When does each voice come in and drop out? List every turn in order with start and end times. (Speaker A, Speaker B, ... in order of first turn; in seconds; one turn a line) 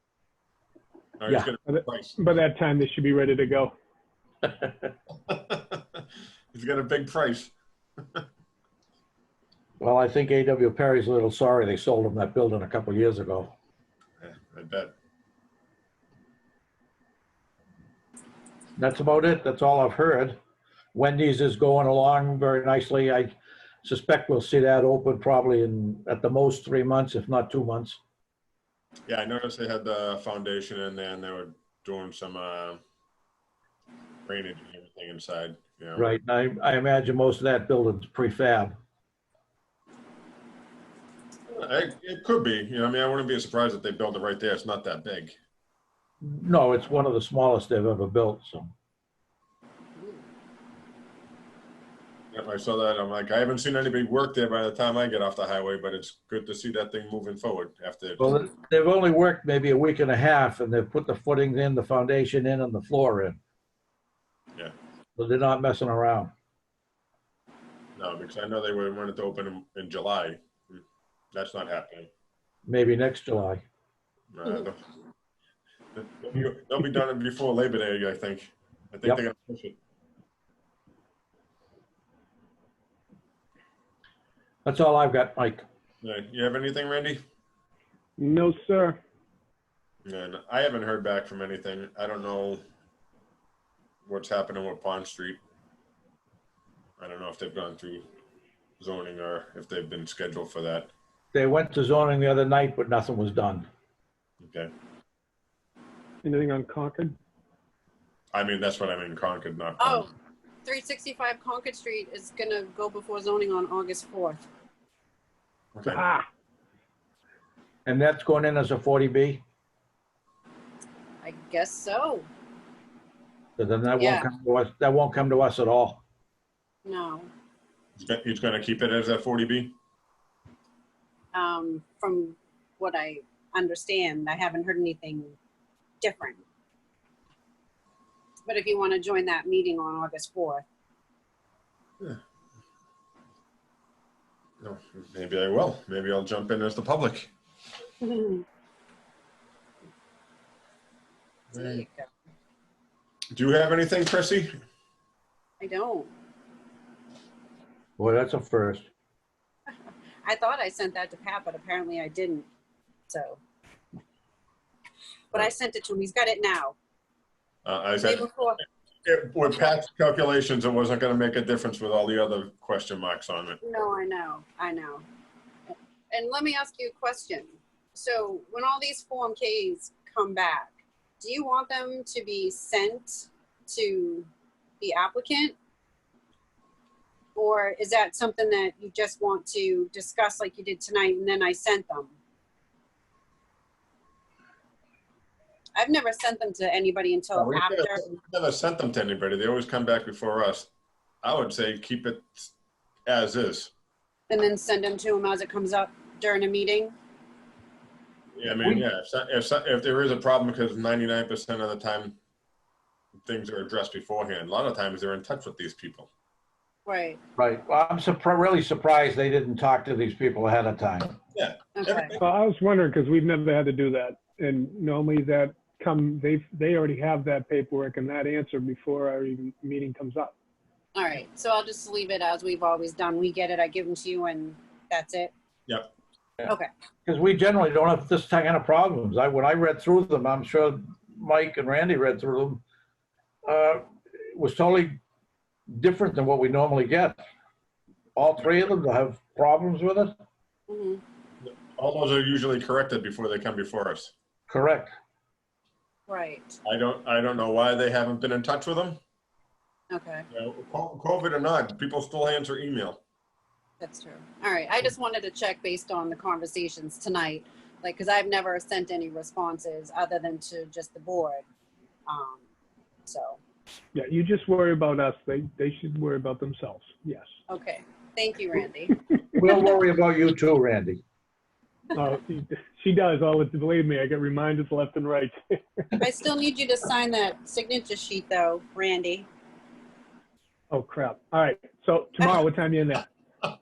Speaker A: 1.2-2.2
Speaker B: 1.7-3.7
Speaker C: 4.4-4.7
Speaker A: 5.3-7.5
Speaker C: 9.8-13.5
Speaker A: 14.2-14.9
Speaker C: 18.8-20.4
Speaker C: 20.9-28.0
Speaker A: 29.1-32.8
Speaker A: 34.2-36.1
Speaker C: 36.0-38.7
Speaker A: 41.5-45.3
Speaker C: 46.2-48.7
Speaker A: 52.3-58.4
Speaker C: 58.2-63.4
Speaker C: 65.2-66.3
Speaker A: 68.0-70.8
Speaker A: 71.3-72.1
Speaker C: 72.7-73.6
Speaker A: 74.3-74.8
Speaker A: 76.0-79.8
Speaker C: 84.6-85.6
Speaker A: 86.0-87.2
Speaker B: 88.2-89.0
Speaker A: 90.0-92.6
Speaker A: 94.0-95.4
Speaker A: 97.0-98.0
Speaker A: 98.8-100.9
Speaker C: 101.3-103.7
Speaker A: 104.4-104.7
Speaker B: 106.2-107.2
Speaker A: 108.3-110.1
Speaker D: 109.8-110.1
Speaker D: 110.6-114.4
Speaker A: 115.8-116.0
Speaker B: 115.8-116.2
Speaker C: 117.8-119.4
Speaker D: 121.2-122.2
Speaker C: 123.6-126.0
Speaker D: 124.0-124.2
Speaker D: 126.8-127.3
Speaker A: 128.0-129.7
Speaker D: 131.3-135.3
Speaker D: 136.0-136.4
Speaker D: 138.4-140.6
Speaker A: 144.6-147.3
Speaker D: 148.0-148.4
Speaker D: 151.5-152.1
Speaker A: 151.5-151.8
Speaker A: 153.3-154.5
Speaker D: 155.6-156.1
Speaker C: 158.0-158.8
Speaker D: 160.2-162.5
Speaker D: 163.1-163.4
Speaker D: 165.3-166.7
Speaker A: 167.6-168.3
Speaker D: 168.0-168.6
Speaker A: 169.0-173.6
Speaker D: 173.6-175.0
Speaker D: 176.1-184.3
Speaker D: 184.8-185.6
Speaker D: 187.3-192.1
Speaker D: 195.8-198.0
Speaker A: 197.3-200.7
Speaker A: 201.2-202.5
Speaker A: 203.1-203.7
Speaker D: 204.3-206.9
Speaker A: 208.3-212.2
Speaker C: 208.5-208.8
Speaker A: 213.2-216.1
Speaker D: 216.8-217.2
Speaker C: 217.4-221.2
Speaker A: 221.3-222.2
Speaker D: 221.8-222.1
Speaker B: 222.1-230.3
Speaker D: 230.9-235.3
Speaker C: 237.1-242.6
Speaker C: 243.4-245.0
Speaker C: 245.7-247.2
Speaker C: 248.1-250.2
Speaker D: 250.7-251.0
Speaker A: 251.4-254.1
Speaker C: 254.5-254.9
Speaker D: 256.1-256.6
Speaker A: 256.6-259.0
Speaker D: 259.9-260.2
Speaker A: 260.3-263.0
Speaker D: 263.8-271.4
Speaker D: 272.1-272.4
Speaker D: 273.1-273.4
Speaker B: 273.9-277.3
Speaker D: 277.5-278.9
Speaker C: 279.4-281.0
Speaker B: 281.9-286.0
Speaker D: 286.0-289.3
Speaker B: 290.7-293.1